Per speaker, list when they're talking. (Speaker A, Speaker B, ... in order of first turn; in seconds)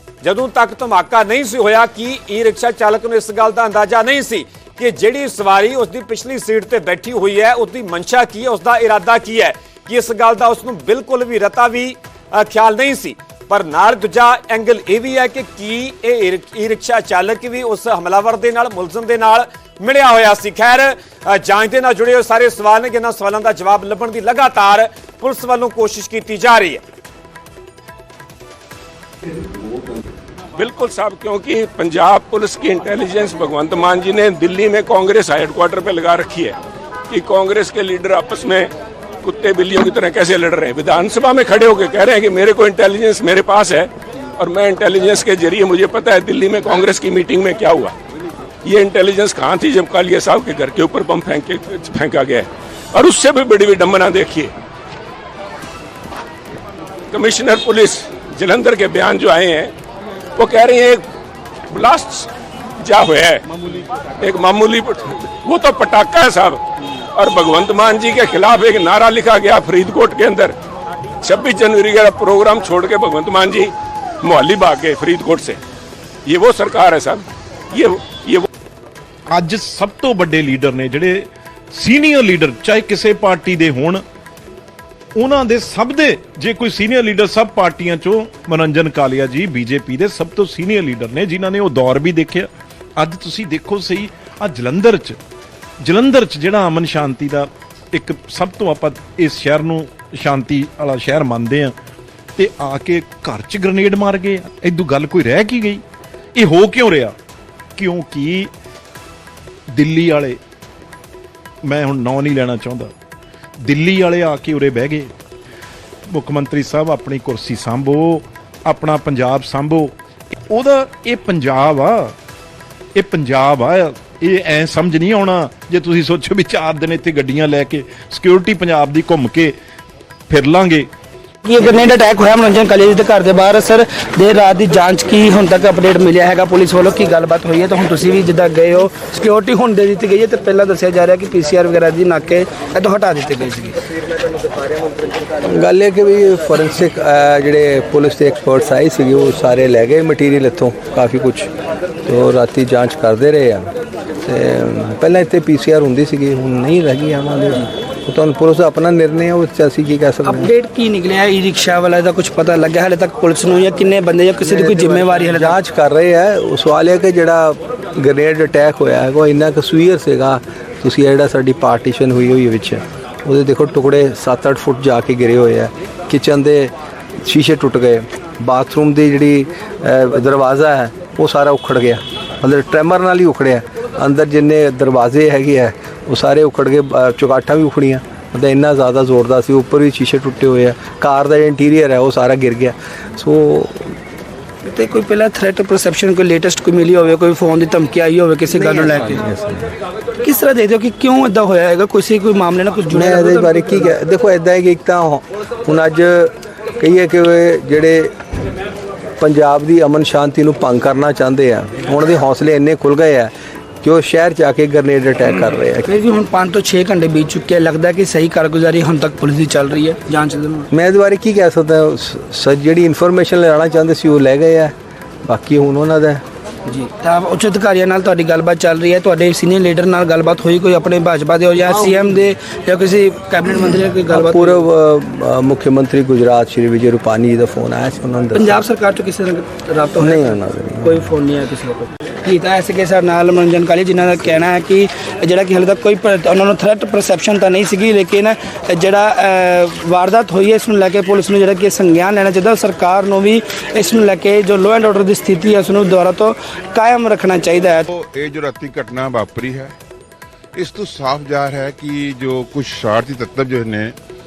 Speaker A: 0.2-26.8
Speaker B: 30.6-36.5, 37.1-38.7, 39.2-47.9, 48.6-54.5, 57.1-59.7, 60.4-61.0, 61.7-62.3, 62.8-63.4, 64.2-66.6, 67.2-70.5, 71.2-73.7, 74.2-75.6, 76.3-78.5
Speaker C: 79.3-84.0, 85.2-95.2, 95.8-101.8, 102.4-105.8, 106.3-107.2, 107.8-108.5, 109.7-110.4, 111.7-112.9, 113.6-115.1, 116.1-119.9, 120.5-122.2, 123.0-129.6, 130.3-130.9
Speaker D: 131.4-143.8, 160.2-165.6, 194.7-199.3, 200.2-203.9, 215.8-220.7, 226.7-234.6, 238.3-257.9
Speaker E: 145.4-151.5, 152.1-153.7, 154.2-160.5, 164.4-194.0, 198.5-199.7, 202.9-208.1, 209.2-215.9, 220.7-226.2, 234.1-238.6, 240.0-241.1
Speaker F: 257.9-259.8, 260.6-263.9